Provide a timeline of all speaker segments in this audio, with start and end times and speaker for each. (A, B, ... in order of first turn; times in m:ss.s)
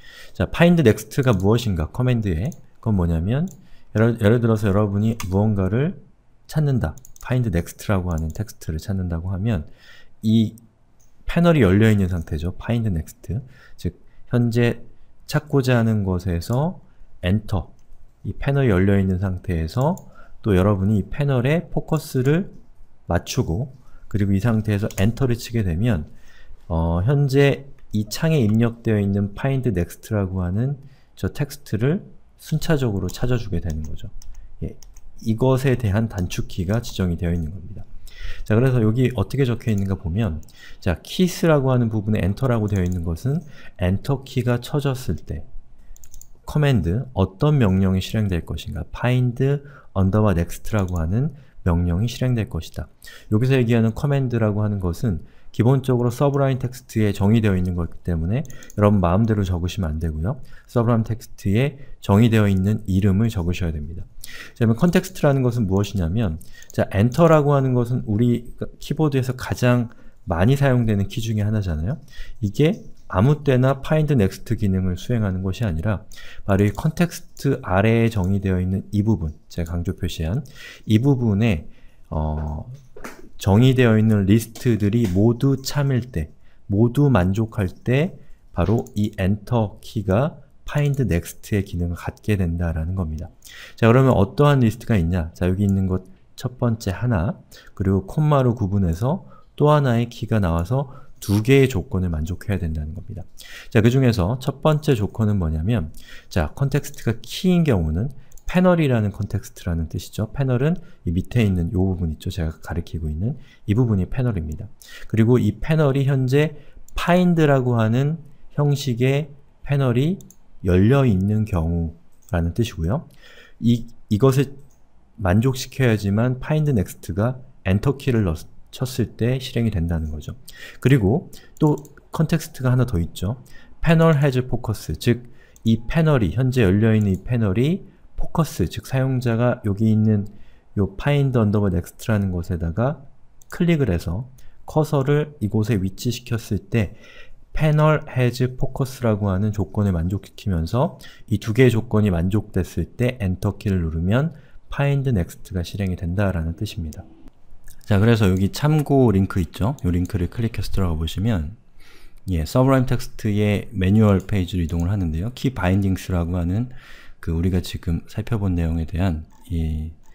0:00.3-0:09.7 A
0:10.2-0:10.6 A
0:11.3-0:22.6 A
0:23.1-0:26.1 A
0:26.7-0:37.9 A
0:38.4-0:45.5 A
0:46.4-1:22.8 A
1:23.4-2:03.1 A
2:03.6-2:04.6 A
2:05.2-2:27.0 A
2:27.5-2:37.0 A
2:37.9-2:41.6 A
2:42.3-2:50.0 A